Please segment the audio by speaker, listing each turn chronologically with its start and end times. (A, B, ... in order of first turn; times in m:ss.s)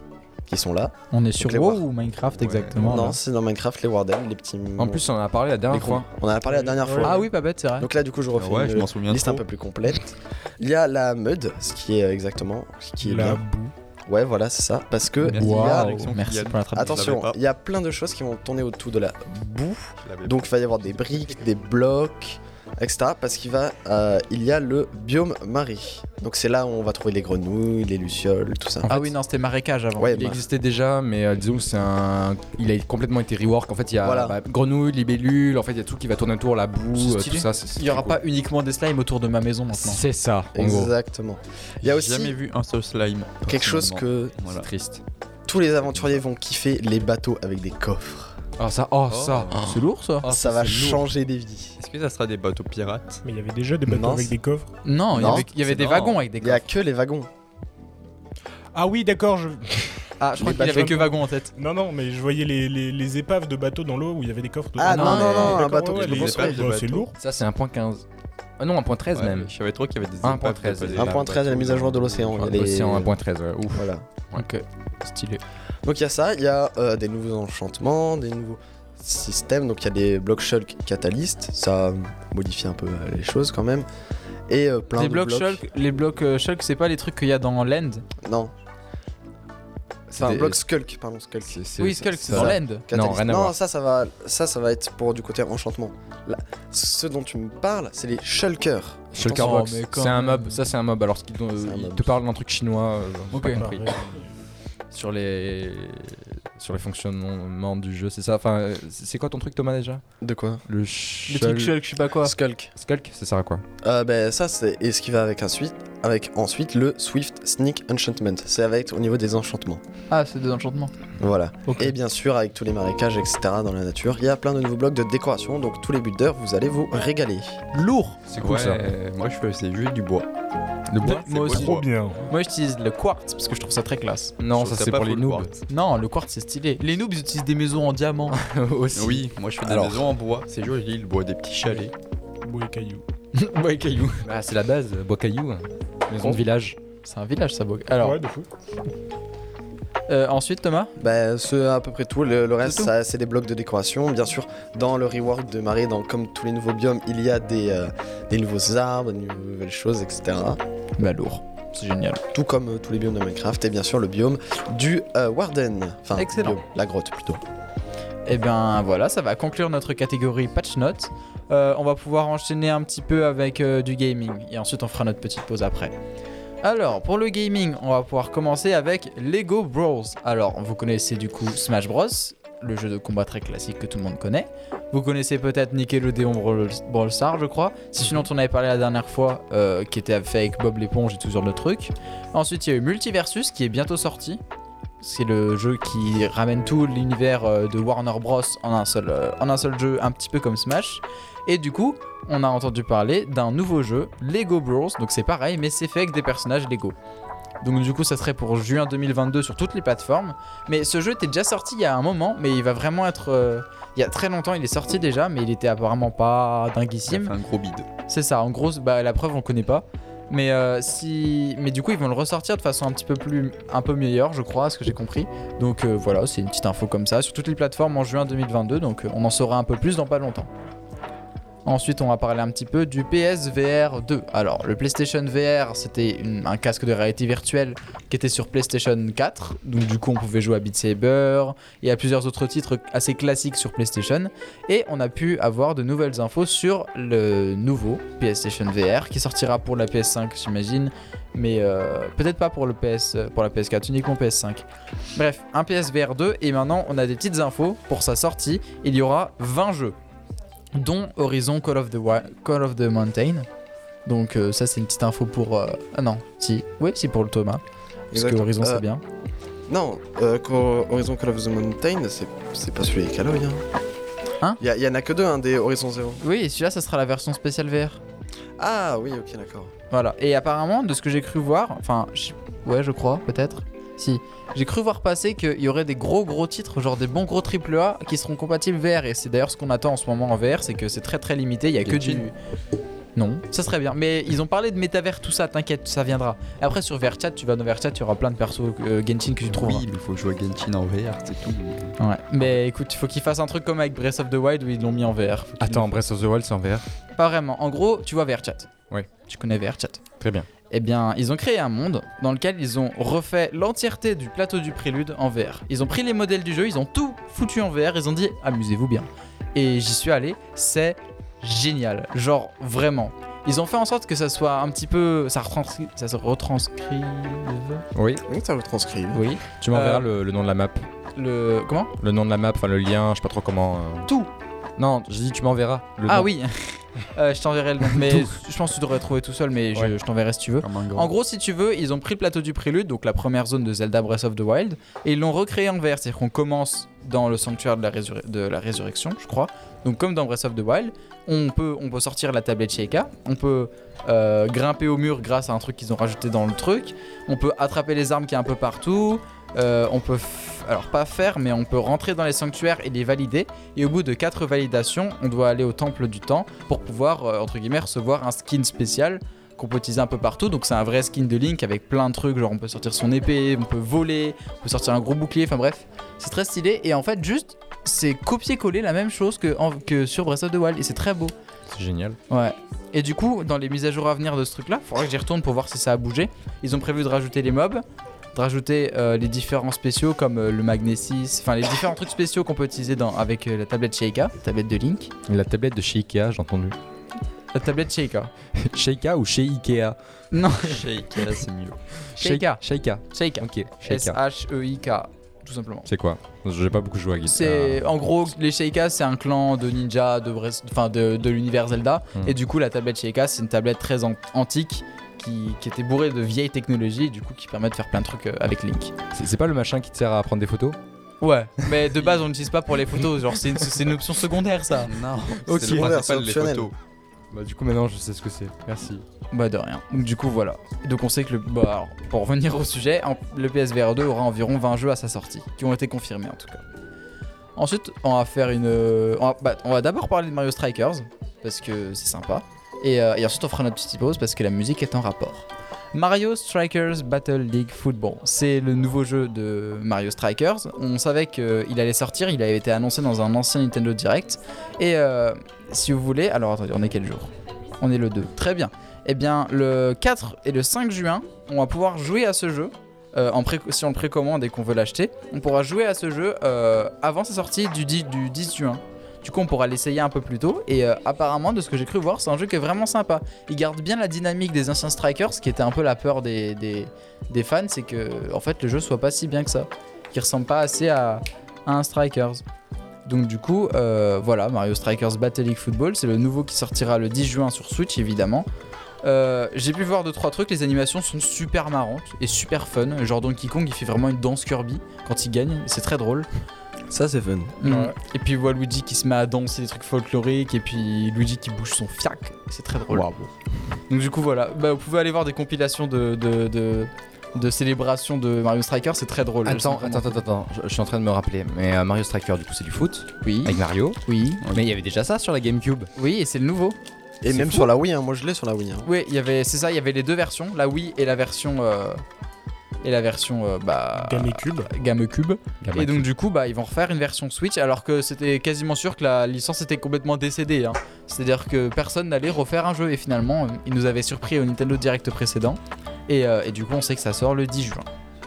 0:00.5-0:01.8 A
0:01.1-0:03.2 B
0:02.4-0:02.8 C
0:02.8-0:05.0 A
0:04.8-0:06.1 C
0:05.7-0:13.4 A
0:06.5-0:07.2 D
0:07.0-0:07.9 B
0:08.4-0:09.4 E
0:13.0-0:13.7 D
0:14.1-0:16.0 A
0:15.2-0:17.4 E
0:15.3-0:17.1 B
0:16.7-0:29.1 A
0:20.0-0:21.0 E
0:28.9-0:30.4 B
0:30.0-0:30.4 A
0:30.1-0:38.2 C
0:34.0-0:34.4 A
0:36.9-0:40.0 B
0:39.7-0:40.9 C
0:40.5-0:42.3 A
0:41.8-0:44.7 E
0:43.4-0:44.4 A
0:44.5-0:45.0 C
0:45.5-0:48.4 A
0:48.6-0:51.1 C
0:49.1-0:49.6 E
0:49.6-0:50.3 B
0:50.3-0:51.8 A
0:51.8-0:53.2 E
0:53.2-0:54.7 D
0:53.8-0:54.4 A
0:54.8-0:56.7 B
0:55.1-0:55.5 A
0:55.6-0:56.2 E
0:56.4-0:57.3 A
0:58.7-1:07.1 D
1:00.2-1:01.5 B
1:00.4-1:01.0 A
1:04.8-1:06.8 A
1:04.9-1:05.6 B
1:05.6-1:07.1 E
1:07.2-1:08.0 C
1:08.6-1:09.5 C
1:09.1-1:11.5 E
1:10.2-1:14.4 C
1:11.0-1:13.1 A
1:13.7-1:14.0 A
1:14.3-1:15.4 B
1:15.8-1:23.9 A
1:24.5-1:25.6 A
1:24.9-1:28.0 B
1:28.2-1:28.5 A
1:30.1-1:39.7 A
1:30.1-1:30.6 C
1:31.5-1:33.6 C
1:31.8-1:32.8 B
1:39.1-1:44.2 C
1:39.3-1:40.6 B
1:41.6-1:42.2 A
1:43.3-1:43.7 B
1:43.5-1:44.2 D
1:44.9-1:50.0 C
1:50.2-1:50.6 A
1:50.7-1:51.8 C
1:51.3-1:52.3 B
1:52.2-1:52.7 A
1:52.8-1:53.6 C
1:53.8-1:59.8 A
2:00.1-2:00.9 B
2:01.2-2:07.6 A
2:07.7-2:08.2 B
2:08.3-2:08.8 C
2:08.4-2:10.3 E
2:10.9-2:11.9 E
2:11.0-2:14.3 B
2:11.4-2:12.3 D
2:14.4-2:15.5 C
2:14.5-2:15.6 E
2:15.7-2:18.4 B
2:18.3-2:19.3 C
2:18.9-2:21.9 E
2:19.6-2:20.1 A
2:22.4-2:23.0 D
2:23.3-2:24.2 B
2:24.2-2:26.8 C
2:27.0-2:28.2 B
2:28.0-2:28.5 D
2:30.1-2:30.9 B
2:31.0-2:40.6 A
2:32.6-2:32.9 B
2:41.0-2:42.2 B
2:42.3-2:47.4 A
2:46.1-2:46.6 B
2:48.2-2:55.9 B
2:56.6-3:14.4 B
3:15.0-3:27.0 B
3:27.6-3:37.3 B
3:37.1-3:37.9 E
3:38.1-3:50.5 B
3:51.6-4:14.6 B
4:15.1-4:20.0 B
4:20.7-4:23.5 B
4:24.0-4:27.6 B
4:28.1-4:28.8 A
4:28.1-4:29.0 B
4:29.7-4:33.6 A
4:34.6-4:36.2 A
4:36.2-4:38.0 B
4:38.6-4:39.7 A
4:39.9-4:52.3 B
4:51.8-4:52.2 E
4:53.2-4:59.8 B
4:59.5-5:01.9 E
5:02.0-5:06.0 B
5:05.6-5:06.9 C
5:07.2-5:08.7 B
5:09.2-5:10.0 B
5:10.2-5:10.5 C
5:10.7-5:27.8 B
5:27.9-5:28.2 C
5:28.3-5:29.2 A
5:29.1-5:30.1 B
5:29.6-5:30.9 C
5:31.1-5:31.9 B
5:32.0-5:34.1 C
5:34.0-5:34.3 B
5:34.8-5:36.3 C
5:36.1-6:21.3 B
5:37.9-5:38.3 C
5:40.6-5:41.1 E
6:21.7-6:22.2 C
6:22.3-6:35.1 B
6:35.2-6:36.8 C
6:37.5-6:38.3 B
6:38.5-6:40.0 C
6:40.3-6:40.8 B
6:40.6-6:41.8 E
6:42.1-6:44.2 C
6:42.2-6:45.9 B
6:45.8-6:48.0 C
6:47.2-6:59.0 B
6:59.1-7:00.8 C
7:01.2-7:04.9 B
7:04.8-7:06.7 E
7:05.3-7:06.0 C
7:05.5-7:06.7 A
7:07.3-7:09.0 C
7:09.3-7:16.6 B
7:17.6-8:02.4 B
8:03.0-8:08.5 B
8:09.0-8:16.3 B
8:16.9-8:17.6 A
8:17.6-8:23.3 B
8:17.7-8:17.9 D
8:23.9-8:30.2 B
8:29.4-8:35.9 C
8:33.2-8:34.4 B
8:36.0-8:36.8 B
8:37.2-8:38.9 A
8:37.3-8:37.7 B
8:38.8-8:42.0 B
8:42.8-8:57.9 B
8:44.0-8:44.7 D
8:45.6-8:46.0 C